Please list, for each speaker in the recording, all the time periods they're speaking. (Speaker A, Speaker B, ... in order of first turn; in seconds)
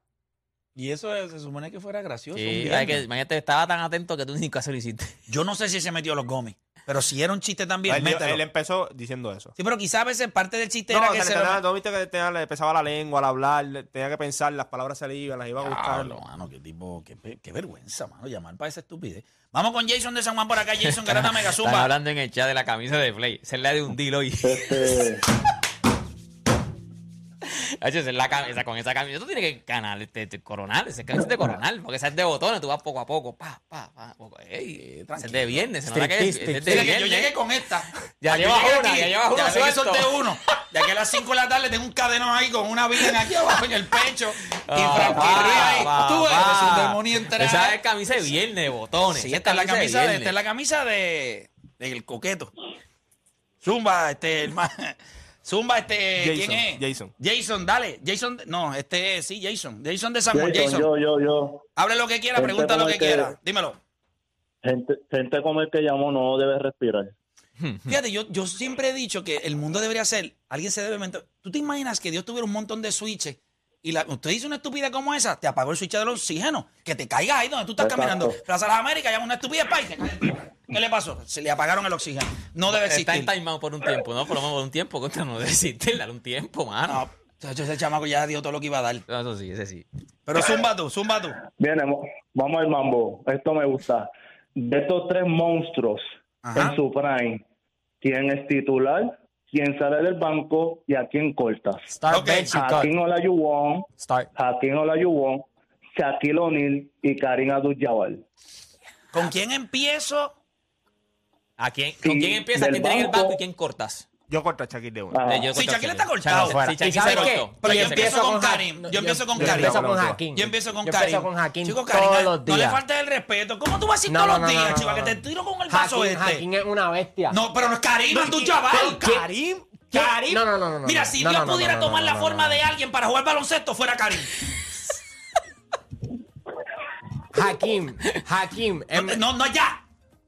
Speaker A: 0.8-3.0, 5.3-8.4, 9.6-11.6, 15.7-21.9, 34.9-35.7, 36.6-47.8, 49.1-52.5, 53.6-60.9, 61.8-63.8, 67.8-83.3, 86.9-89.0, 90.3-91.4, 96.4-96.8, 102.1-102.6, 109.1-110.3, 115.5-119.8, 120.3-126.4, 127.3-129.2, 130.8-134.3, 138.9-139.8
Speaker B: 2.3-5.1, 20.8-25.2, 27.4-37.4, 38.2-40.6, 44.5-50.3, 82.7-87.1, 89.1-89.8, 111.6-114.1, 115.3-118.1
Speaker C: 7.9-9.5, 10.9-16.2, 56.2-57.1, 114.3-115.2, 119.3-120.2, 128.1-130.4
Speaker D: 24.4-25.2, 60.3-61.6, 62.3-63.3, 64.6-67.1, 77.8-78.4, 91.6-97.4, 98.0-101.9, 102.5-108.2, 112.0-113.4, 115.1-115.5
Speaker E: 35.9-36.9, 101.9-102.9, 104.0-104.3, 116.5-122.8, 124.1-127.4, 129.9-132.6, 137.3-139.2